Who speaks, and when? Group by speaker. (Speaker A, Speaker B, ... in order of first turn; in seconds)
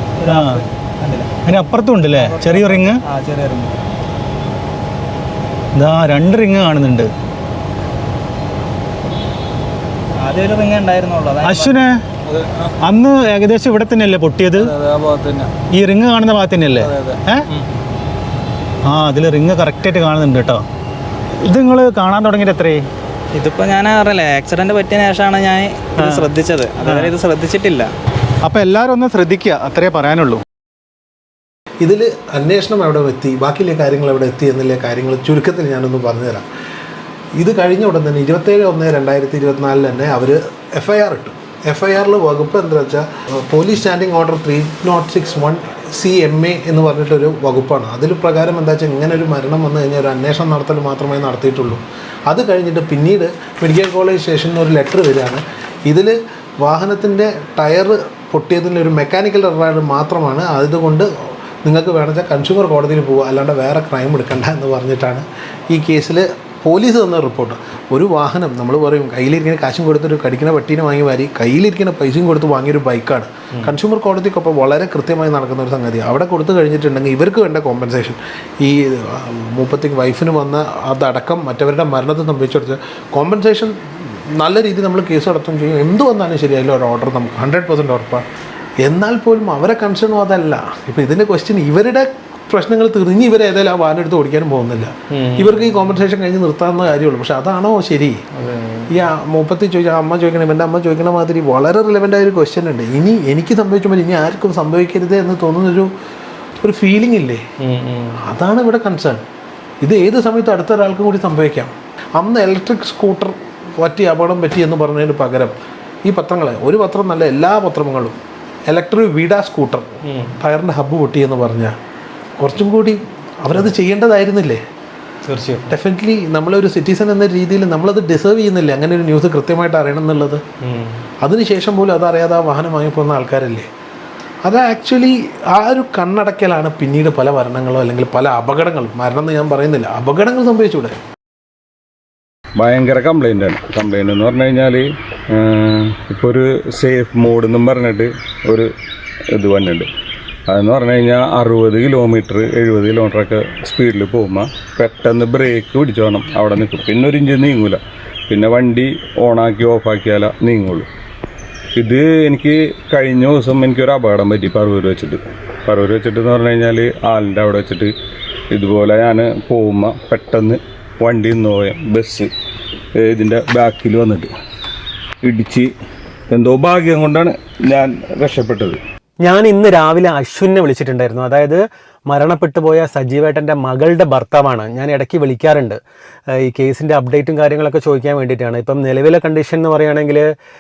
Speaker A: 0.2-1.3, 2.1-3.8, 10.2-11.8, 23.4-27.9
Speaker B: 0.3-0.6, 1.4-3.0, 5.8-7.1, 11.4-12.0, 12.8-14.8, 15.7-17.5, 18.9-20.6, 21.4-22.9, 26.0-26.3, 26.8-27.2, 28.4-30.4
Speaker C: 31.8-36.5, 37.4-61.1, 61.6-83.8, 84.4-88.2, 88.8-98.2, 98.9-105.9, 106.6-107.5, 108.2-109.2, 109.8-118.2, 118.7-121.8, 122.4-124.6, 125.7-130.4, 131.2-133.7, 134.5-140.9
Speaker D: 125.3-125.7, 179.2-185.8, 186.4-190.2
Speaker E: 142.6-144.8, 145.4-148.7, 149.4-149.9, 150.5-160.9, 161.8-167.9, 168.5-172.3, 173.0-174.3, 175.2-175.7, 176.3-178.8